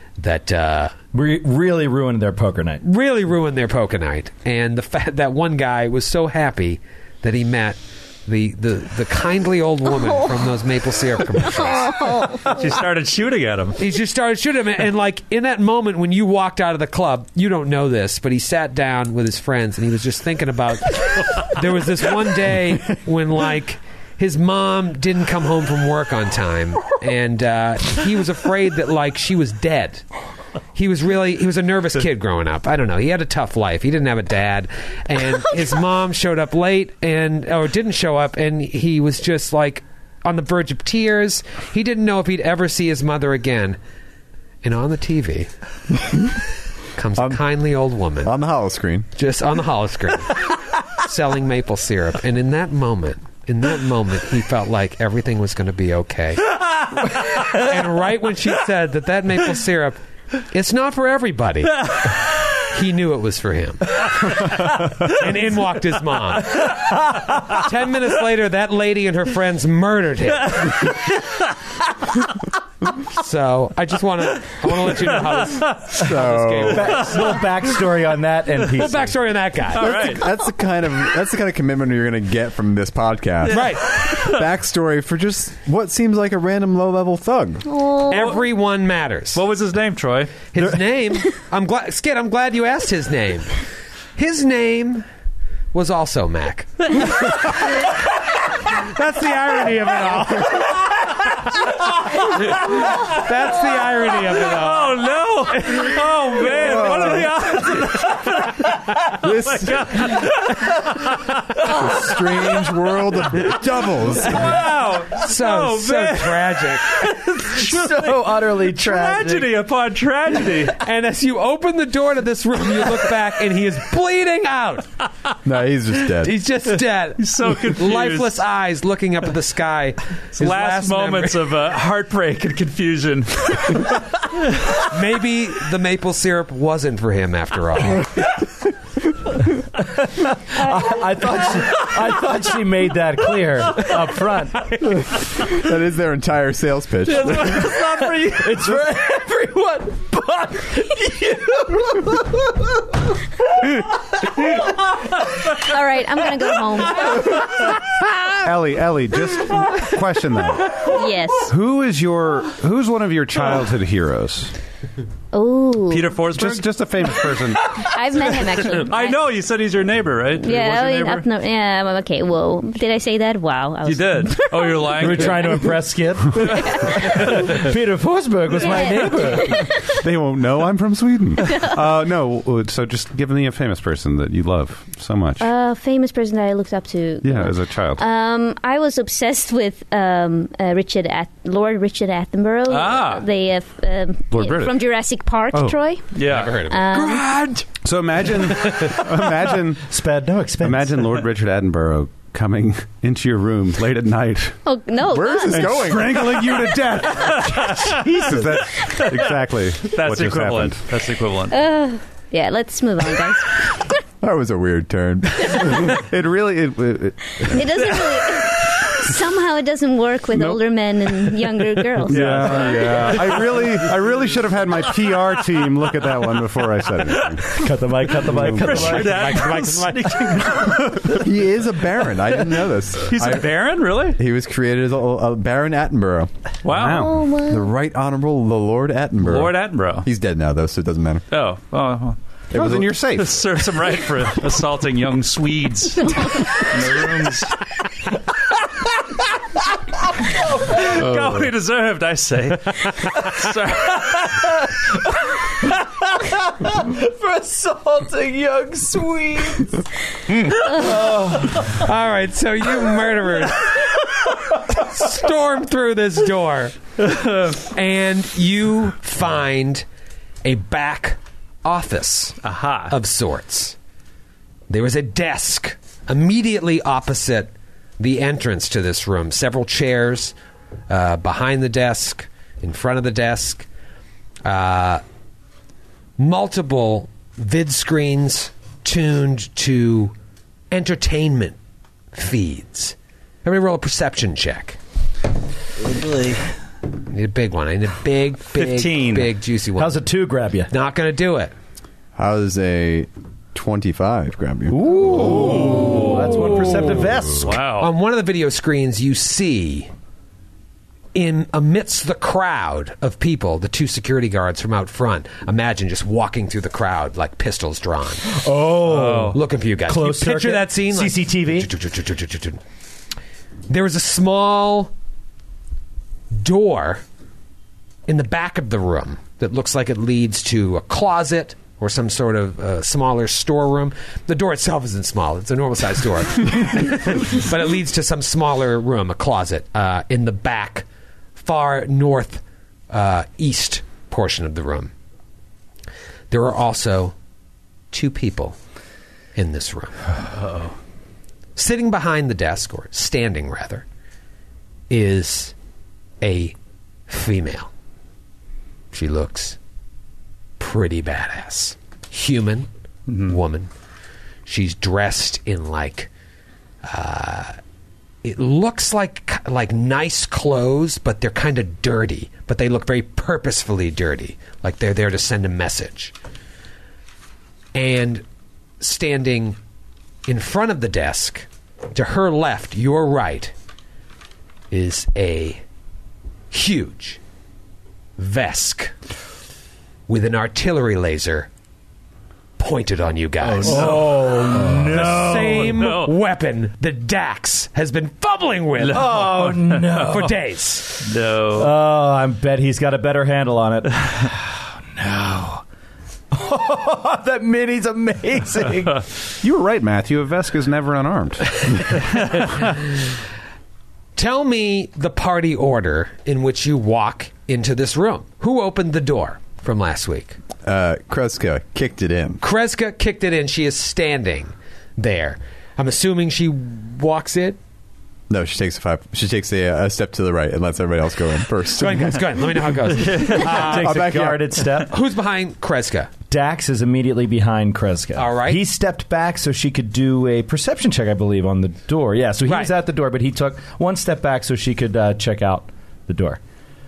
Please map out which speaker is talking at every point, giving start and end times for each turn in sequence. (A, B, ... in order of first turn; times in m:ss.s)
0:00.2-0:00.9 A
0:01.1-0:02.8 B
0:02.8-0:12.3 A
0:11.8-0:12.5 C
0:12.4-0:13.8 D
0:13.8-0:30.0 A
0:30.7-0:43.8 A
0:44.6-0:45.5 A
0:46.9-0:48.3 A
0:48.2-0:49.1 E
0:49.2-1:11.0 A
1:10.5-1:11.4 D
1:13.0-1:17.4 A
1:15.6-1:16.0 D
1:16.0-1:16.9 E
1:16.6-1:19.1 B
1:18.8-1:20.0 A
1:19.7-1:20.4 D
1:19.8-1:27.6 E
1:23.4-1:24.4 D
1:23.5-1:23.9 A
1:27.7-1:28.4 C
1:28.1-1:29.4 A
1:29.3-1:30.6 D
1:30.5-1:33.6 A
1:34.2-1:35.0 A
1:35.7-1:37.9 A
1:38.6-1:41.3 A
1:42.2-1:46.9 A
1:44.3-1:52.0 D
1:46.5-1:47.4 E
1:49.2-1:50.0 E
1:51.6-1:54.5 E
1:54.2-2:00.8 D
1:55.1-1:57.0 A
1:57.5-1:59.5 B
2:00.8-2:04.9 A
2:05.4-2:06.3 E
2:06.2-2:11.5 A
2:07.2-2:08.4 D
2:10.3-2:14.0 D
2:14.8-2:18.3 A
2:19.9-2:24.6 B
2:25.4-2:27.7 E
2:27.0-2:28.8 D
2:28.0-2:32.4 B
2:35.5-2:37.4 C
2:38.4-2:40.8 F
2:40.8-2:41.5 C
2:41.5-2:44.5 F
2:45.3-2:46.2 C
2:45.9-2:46.8 D
2:46.3-2:47.7 F
2:47.8-2:49.4 C
2:48.3-2:51.2 D
2:50.4-2:55.0 C
2:50.5-2:50.9 F
2:53.8-2:55.7 D
2:55.0-2:59.6 B
2:56.6-2:57.0 C
2:58.6-3:00.0 C
2:59.9-3:05.5 F
3:05.4-3:17.3 C
3:07.2-3:08.0 F
3:12.7-3:13.3 D
3:14.3-3:14.8 F
3:15.5-3:15.8 F
3:16.1-3:16.6 D
3:16.2-3:17.7 A
3:17.8-3:19.9 F
3:18.3-3:19.0 A
3:19.8-3:21.0 B
3:20.6-3:24.6 F
3:24.6-3:25.8 C
3:25.1-3:26.4 E
3:25.5-3:30.8 F
3:27.2-3:28.2 D
3:28.9-3:31.6 D
3:31.5-3:33.9 C
3:34.2-3:36.0 E
3:35.8-3:37.9 F
3:37.4-3:42.3 C
3:40.3-3:47.5 F
3:42.1-3:43.9 D
3:47.0-3:47.4 D
3:47.5-3:49.3 B
3:48.3-3:48.9 F
3:48.4-3:51.2 D
3:48.6-3:50.7 A
3:51.0-3:53.5 E
3:53.1-3:54.2 D
3:54.1-3:56.3 E
3:56.6-3:57.1 D
3:56.7-3:57.2 F
3:57.0-3:57.6 C
3:57.4-4:01.2 E
3:59.2-4:00.1 D
4:01.3-4:02.2 D
4:02.5-4:03.0 E
4:02.5-4:03.4 F
4:03.1-4:07.6 D
4:06.2-4:06.5 C
4:10.6-4:14.2 D
4:16.3-4:19.8 B
4:20.7-4:21.6 B
4:21.5-4:26.8 A
4:27.0-4:27.5 D
4:27.5-4:29.8 A
4:30.4-4:33.8 A
4:32.4-4:32.9 D
4:34.7-4:40.3 A
4:40.9-4:43.7 A
4:44.4-4:45.0 A
4:46.2-4:50.1 A
4:50.7-4:51.6 A
4:52.1-4:54.8 A
4:55.9-4:56.4 D
4:57.1-5:00.0 A
4:58.6-4:59.3 D
4:59.8-5:00.7 B
5:00.7-5:01.5 A
5:02.2-5:04.8 E
5:04.7-5:07.6 B
5:05.3-5:06.7 D
5:07.4-5:07.9 D
5:07.8-5:09.9 A
5:11.1-5:18.2 A
5:18.2-5:21.7 B
5:18.8-5:19.4 D
5:19.3-5:22.6 A
5:23.7-5:24.9 A
5:26.3-5:27.0 A
5:28.1-5:44.9 A
5:46.3-5:47.1 A
5:47.9-5:48.6 A
5:49.3-5:50.1 A
5:50.4-5:50.7 D
5:51.6-5:53.8 A
5:54.9-5:55.5 A
5:56.2-5:56.6 A
5:57.1-5:57.7 A
5:58.9-5:59.6 A
6:00.6-6:03.7 A
6:03.1-6:03.4 D
6:04.4-6:06.1 A
6:06.8-6:07.6 A
6:08.2-6:16.1 A
6:17.7-6:18.2 A
6:18.8-6:19.6 A
6:20.3-6:23.5 A
6:24.7-6:25.6 A
6:26.5-6:27.2 A
6:28.2-6:28.9 A
6:30.1-6:31.5 A
6:32.6-6:39.3 A
6:33.4-6:36.1 D
6:33.6-6:35.8 B
6:38.8-6:40.3 D
6:38.9-6:40.3 B
6:40.0-6:41.0 A
6:41.0-6:41.7 D
6:41.5-6:45.6 B
6:46.3-6:49.0 B
6:49.4-6:52.0 F
6:54.2-7:00.4 A
7:00.6-7:02.4 E
7:02.4-7:07.6 A
7:08.3-7:12.4 E
7:11.8-7:13.9 A
7:13.0-7:13.5 D
7:13.3-7:14.9 B
7:13.6-7:14.5 E
7:14.8-7:16.1 A
7:16.3-7:26.4 B
7:18.2-7:18.6 A